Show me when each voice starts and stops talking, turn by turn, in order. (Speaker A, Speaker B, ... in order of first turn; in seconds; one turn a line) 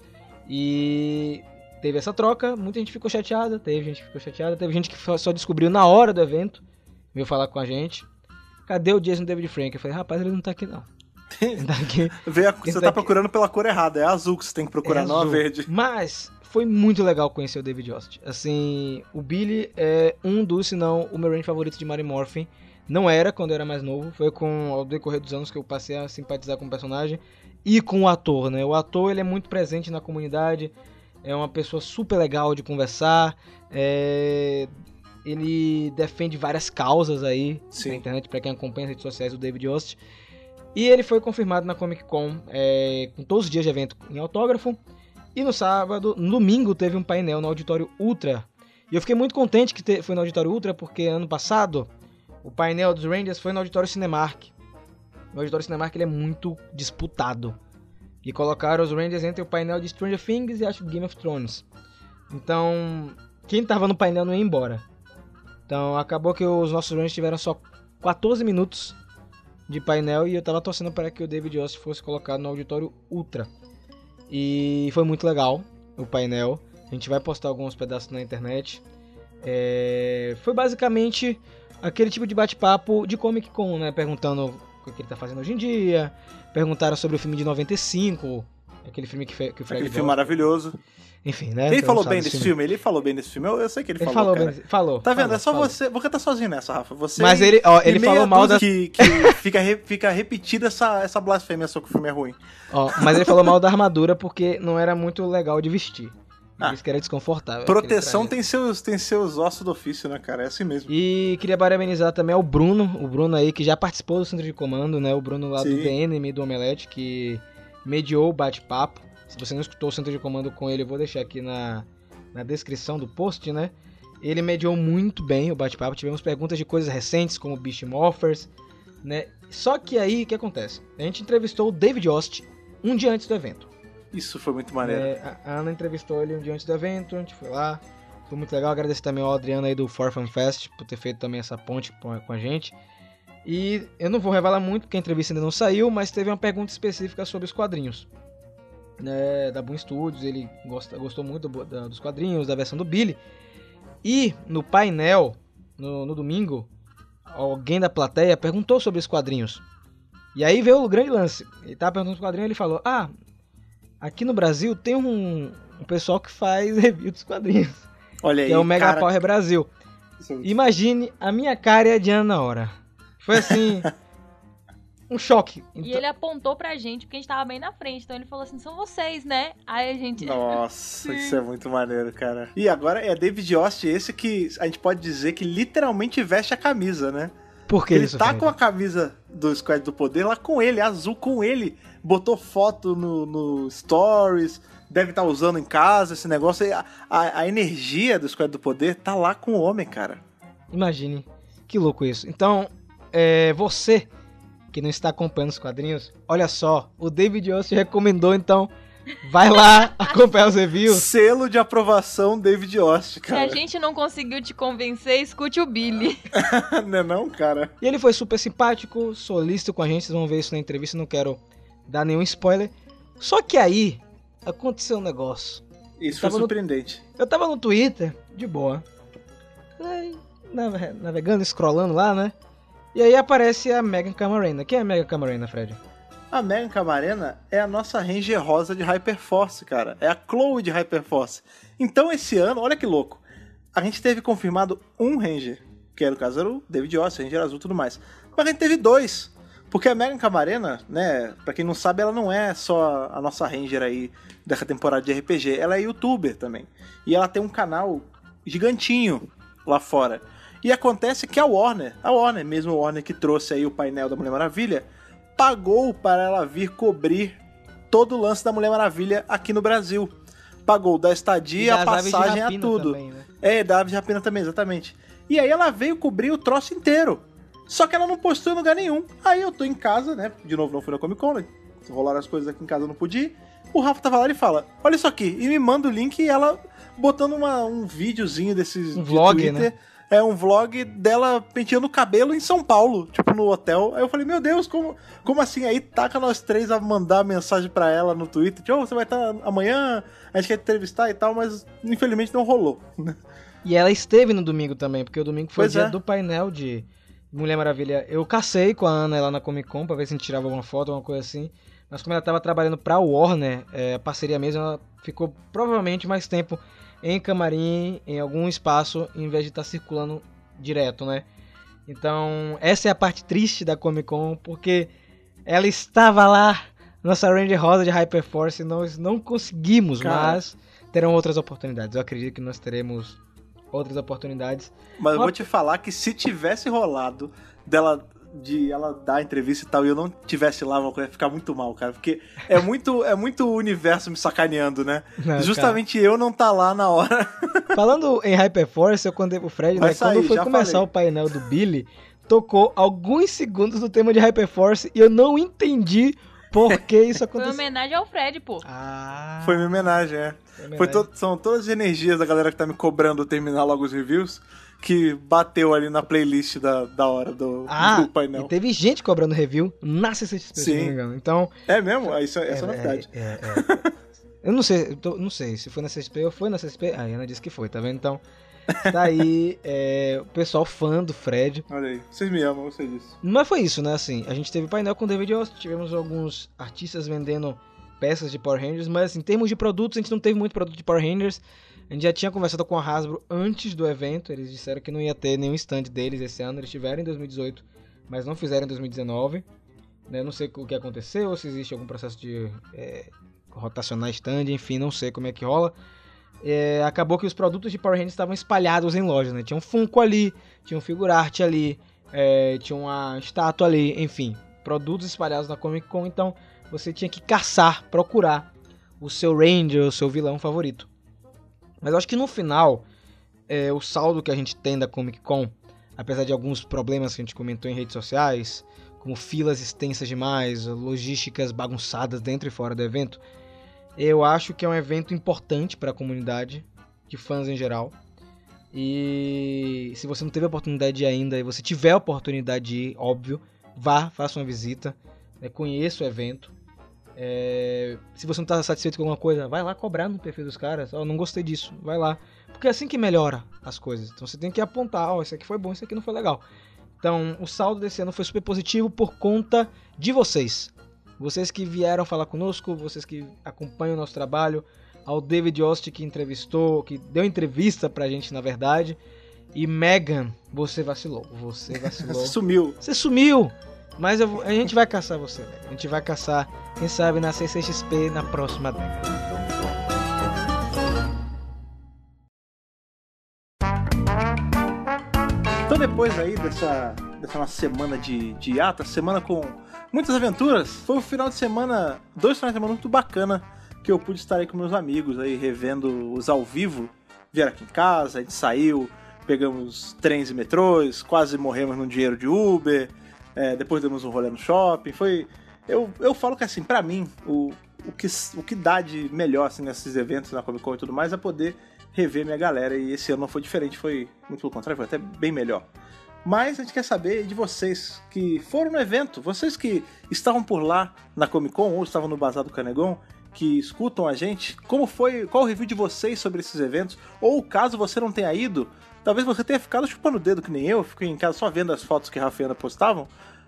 Speaker A: 0.5-6.6
Speaker A: 7.1-8.1
Speaker A: 8.7-10.9
Speaker B: 11.3-15.7
Speaker A: 11.6-13.1
Speaker A: 14.8-34.7
Speaker A: 35.2-40.0
Speaker B: 37.7-38.0
Speaker A: 40.8-44.8
Speaker A: 45.4-51.9
Speaker A: 52.4-54.5
Speaker A: 55.3-57.6
Speaker A: 58.2-61.6
Speaker A: 62.3-64.8
Speaker A: 65.7-69.0
Speaker A: 69.7-73.5
Speaker A: 74.3-78.8
Speaker A: 79.4-90.4
Speaker B: 89.7-90.8
Speaker A: 91.2-92.5
Speaker B: 91.7-102.4
Speaker A: 94.0-95.8
Speaker A: 97.2-99.4
Speaker A: 102.7-108.3
Speaker B: 103.0-103.5
Speaker B: 107.7-110.9
Speaker A: 110.9-128.5
Speaker B: 115.6-115.9
Speaker A: 129.0-133.7
Speaker B: 134.1-135.1
Speaker A: 134.8-142.8
Speaker A: 143.5-148.1
Speaker A: 149.0-153.2
Speaker A: 154.0-156.7
Speaker A: 157.3-159.6
Speaker A: 160.3-163.1
Speaker A: 164.0-167.9
Speaker B: 168.2-169.1
Speaker A: 168.5-169.7
Speaker B: 170.2-170.6
Speaker A: 170.4-173.9
Speaker B: 173.4-173.7
Speaker A: 175.1-176.0
Speaker C: 175.8-181.4
Speaker B: 180.2-187.3
Speaker A: 187.7-188.5
Speaker B: 187.9-200.2
Speaker A: 200.7-204.1
Speaker A: 204.7-208.7
Speaker A: 209.2-211.1
Speaker B: 210.9-213.6
Speaker C: 213.3-216.2
Speaker B: 216.3-217.7
Speaker A: 217.8-226.5
Speaker B: 226.0-227.0
Speaker A: 227.2-228.8
Speaker A: 229.8-232.3
Speaker A: 232.9-235.8
Speaker B: 236.3-243.2
Speaker B: 243.7-267.4
Speaker B: 267.9-270.1
Speaker B: 270.7-303.2
Speaker A: 271.6-273.3
Speaker A: 288.9-289.7
Speaker A: 303.6-321.2
Speaker B: 305.6-306.0
Speaker A: 321.9-324.9
Speaker A: 325.5-333.2
Speaker B: 330.0-330.4
Speaker A: 333.7-335.5
Speaker B: 335.0-347.8
Speaker A: 345.2-345.8
Speaker A: 347.7-357.6
Speaker B: 349.8-350.9
Speaker C: 357.4-358.6
Speaker A: 358.6-359.9
Speaker B: 359.4-368.5
Speaker A: 360.6-361.1
Speaker A: 367.7-371.5
Speaker B: 370.6-370.9
Speaker B: 371.7-373.9
Speaker A: 372.5-373.8
Speaker A: 374.4-378.2
Speaker A: 378.9-381.6
Speaker B: 381.7-383.2
Speaker A: 383.2-399.4
Speaker A: 400.1-405.8
Speaker A: 406.4-418.5
Speaker A: 419.0-420.9
Speaker A: 421.8-422.9
Speaker A: 423.5-433.2
Speaker A: 434.0-437.9
Speaker A: 438.7-446.5
Speaker A: 447.2-456.4
Speaker A: 457.0-469.0
Speaker A: 469.5-479.1
Speaker B: 471.7-472.8
Speaker B: 485.7-515.7
Speaker B: 516.2-533.1